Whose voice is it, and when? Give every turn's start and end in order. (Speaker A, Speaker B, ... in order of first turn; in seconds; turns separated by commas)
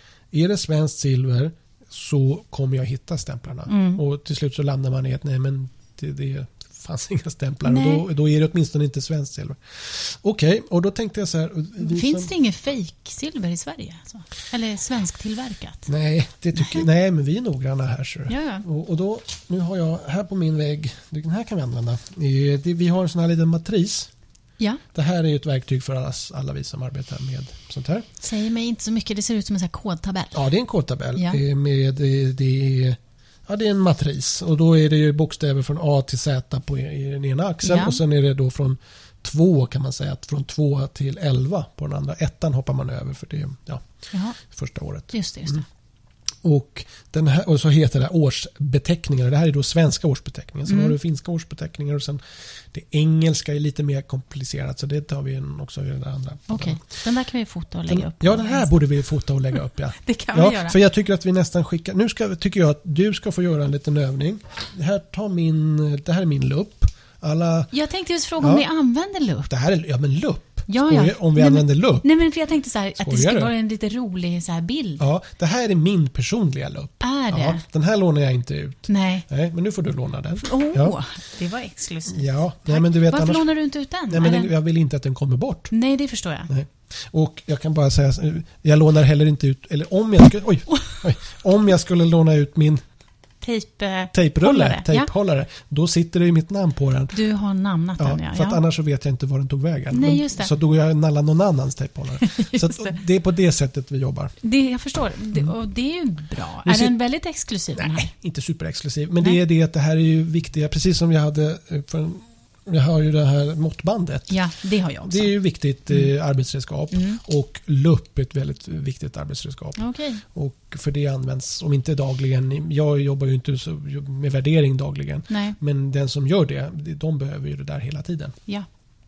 Speaker A: 0.3-12.3, Speaker B: 3.7-4.0, Speaker B: 7.6-8.1, Speaker B: 11.8-15.9, Speaker A: 15.9-24.1, Speaker B: 18.3-18.6, Speaker A: 24.9-28.1, Speaker B: 28.2-30.4, Speaker A: 30.3-43.8, Speaker B: 37.6-38.0, Speaker B: 44.1-44.4, Speaker A: 44.4-45.6, Speaker B: 45.1-45.6, Speaker A: 46.4-52.2, Speaker B: 50.7-51.0, Speaker A: 52.7-56.8, Speaker B: 56.5-58.8, Speaker A: 57.9-67.7, Speaker B: 60.0-60.8, Speaker B: 67.7-69.5, Speaker A: 68.4-68.7, Speaker A: 69.5-72.0, Speaker B: 70.7-75.0, Speaker A: 73.0-73.5, Speaker A: 75.0-81.0, Speaker B: 77.0-77.6, Speaker B: 78.9-79.2, Speaker B: 80.4-84.5, Speaker A: 82.1-83.5, Speaker A: 84.1-85.7, Speaker B: 85.7-86.5, Speaker A: 86.5-92.8, Speaker B: 93.4-95.1, Speaker A: 94.1-97.1, Speaker B: 97.1-98.6, Speaker A: 98.0-104.3, Speaker B: 99.9-100.5, Speaker B: 102.2-103.0, Speaker B: 104.4-108.1, Speaker A: 106.6-107.0, Speaker A: 107.8-114.4, Speaker B: 114.3-115.3, Speaker A: 115.0-128.4, Speaker B: 116.9-117.2, Speaker B: 119.8-120.2, Speaker B: 125.3-125.6